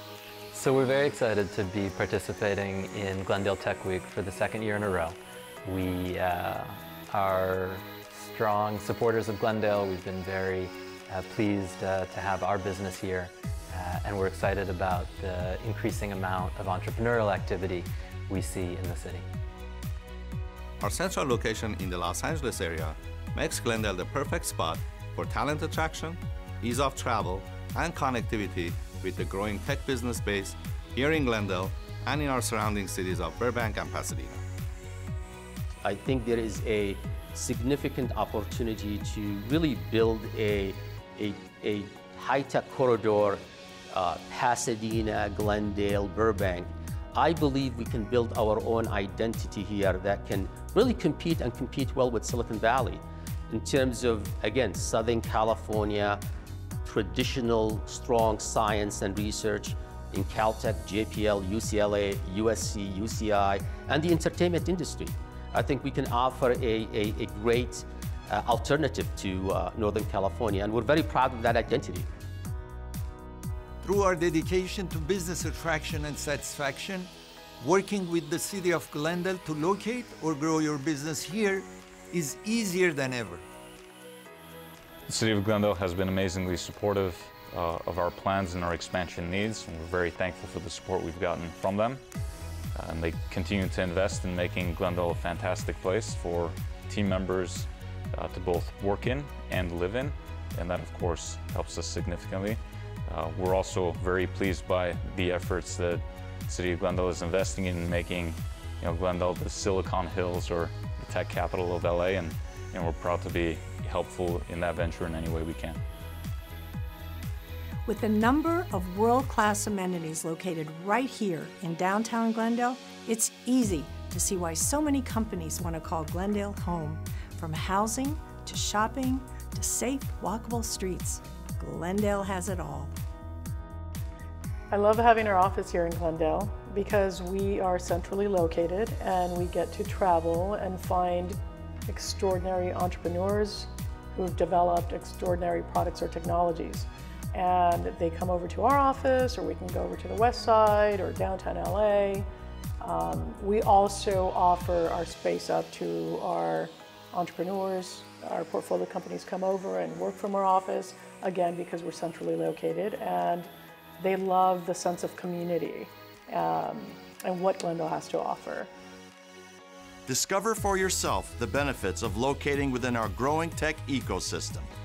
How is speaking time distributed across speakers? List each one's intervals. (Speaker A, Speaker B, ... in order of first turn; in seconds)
Speaker A: 0.5-19.2
Speaker B: 20.8-34.4
Speaker C: 35.8-56.2, 56.8-72.1
Speaker D: 73.8-83.5
Speaker E: 85.1-92.0, 92.7-115.8
Speaker F: 117.8-132.9
Speaker G: 134.7-152.3, 152.8-168.7
Speaker H: 170.1-174.7